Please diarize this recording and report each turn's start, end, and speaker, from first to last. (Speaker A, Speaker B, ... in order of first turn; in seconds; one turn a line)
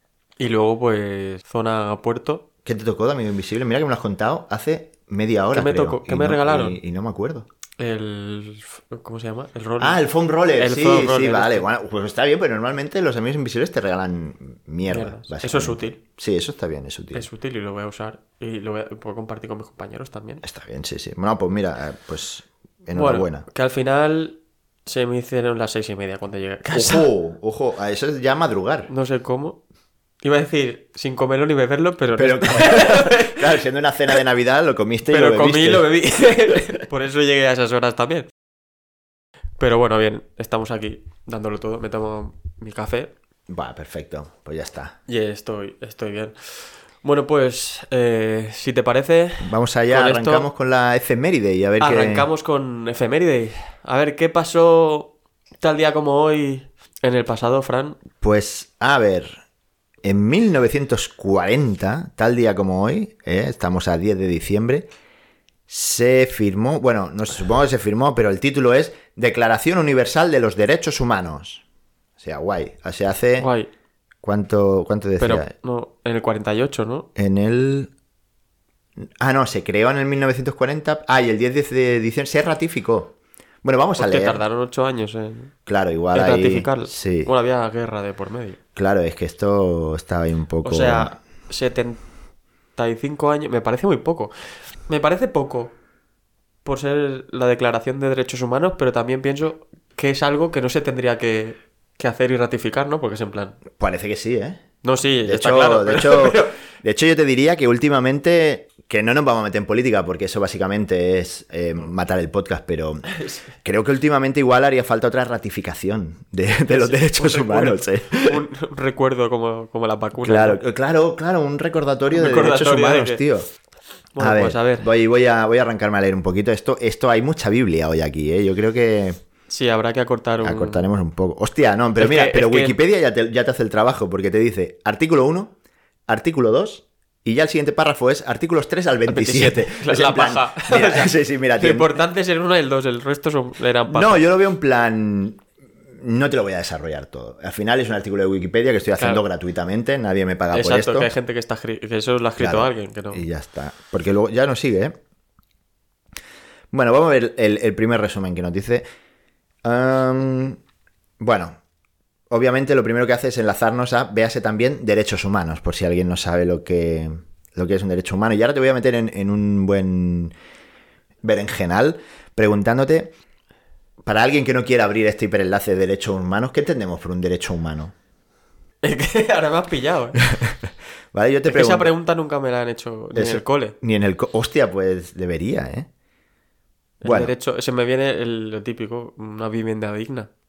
Speaker A: 0.4-2.4
Speaker B: 2.6-7.5
Speaker A: 5.5-6.8
Speaker A: 7.8-10.0
Speaker B: 9.8-17.3
Speaker A: 10.5-11.7
Speaker A: 14.9-16.0
Speaker A: 17.1-20.4
Speaker B: 20.4-23.4
Speaker A: 22.9-27.1
Speaker B: 26.7-28.9
Speaker A: 28.9-29.6
Speaker A: 30.2-33.4
Speaker B: 32.1-35.9
Speaker A: 35.1-38.3
Speaker A: 39.6-43.1
Speaker B: 43.5-45.0
Speaker A: 45.1-50.5
Speaker B: 49.4-52.3
Speaker A: 51.8-58.0
Speaker B: 58.2-59.4
Speaker B: 60.0-64.9
Speaker B: 65.7-71.6
Speaker B: 72.2-73.5
Speaker A: 73.4-73.7
Speaker B: 74.2-75.5
Speaker A: 75.2-77.1
Speaker B: 77.2-77.9
Speaker B: 79.0-84.4
Speaker A: 84.0-85.5
Speaker B: 85.7-87.3
Speaker A: 86.1-88.6
Speaker B: 88.8-91.2
Speaker A: 90.6-92.0
Speaker A: 92.8-94.3
Speaker A: 94.9-95.7
Speaker A: 96.6-103.6
Speaker B: 103.8-104.6
Speaker A: 104.8-106.5
Speaker B: 105.2-113.1
Speaker A: 113.1-113.5
Speaker B: 113.6-118.4
Speaker A: 116.7-120.6
Speaker B: 120.2-123.5
Speaker A: 122.1-123.2
Speaker A: 124.1-124.9
Speaker B: 124.2-129.2
Speaker A: 129.5-130.9
Speaker B: 130.4-135.6
Speaker A: 132.0-132.8
Speaker B: 136.1-142.0
Speaker A: 139.1-144.2
Speaker B: 143.9-151.1
Speaker A: 149.0-149.2
Speaker A: 150.5-153.2
Speaker B: 152.4-155.0
Speaker B: 156.7-158.9
Speaker B: 159.6-160.6
Speaker B: 161.2-161.6
Speaker B: 162.3-170.3
Speaker B: 171.2-173.1
Speaker B: 174.0-177.9
Speaker A: 178.8-180.3
Speaker B: 181.1-181.9
Speaker A: 181.5-183.8
Speaker B: 183.1-185.9
Speaker A: 187.0-190.3
Speaker B: 187.0-187.3